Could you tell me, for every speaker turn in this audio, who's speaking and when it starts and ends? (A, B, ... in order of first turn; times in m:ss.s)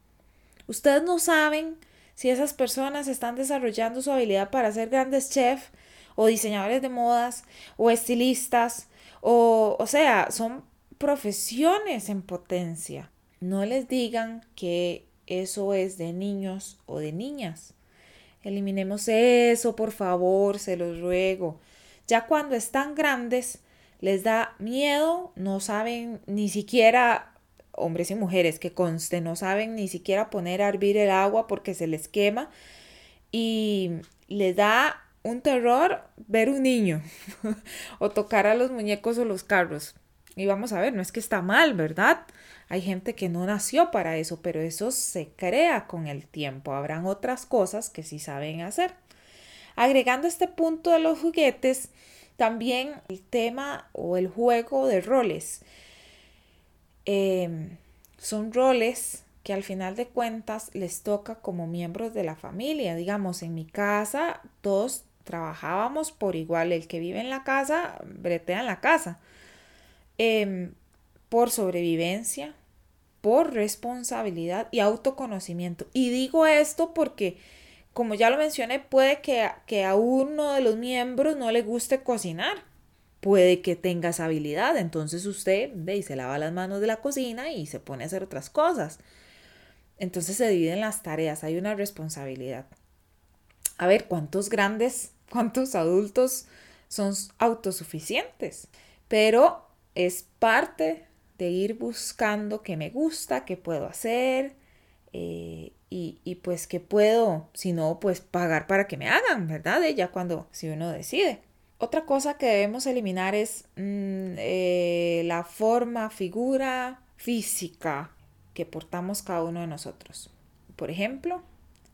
0:00.7-0:17.8 A
0:18.4-0:32.5 A
0:33.3-0:49.0 A
0:49.8-0:55.6 A
0:57.1-1:09.2 A
1:10.2-1:10.8 A
1:11.3-1:12.6 A
1:13.2-1:17.4 A
1:17.9-1:22.6 A
1:23.2-1:29.0 A
1:30.0-1:32.7 A
1:33.8-1:44.6 A
1:45.1-2:01.4 A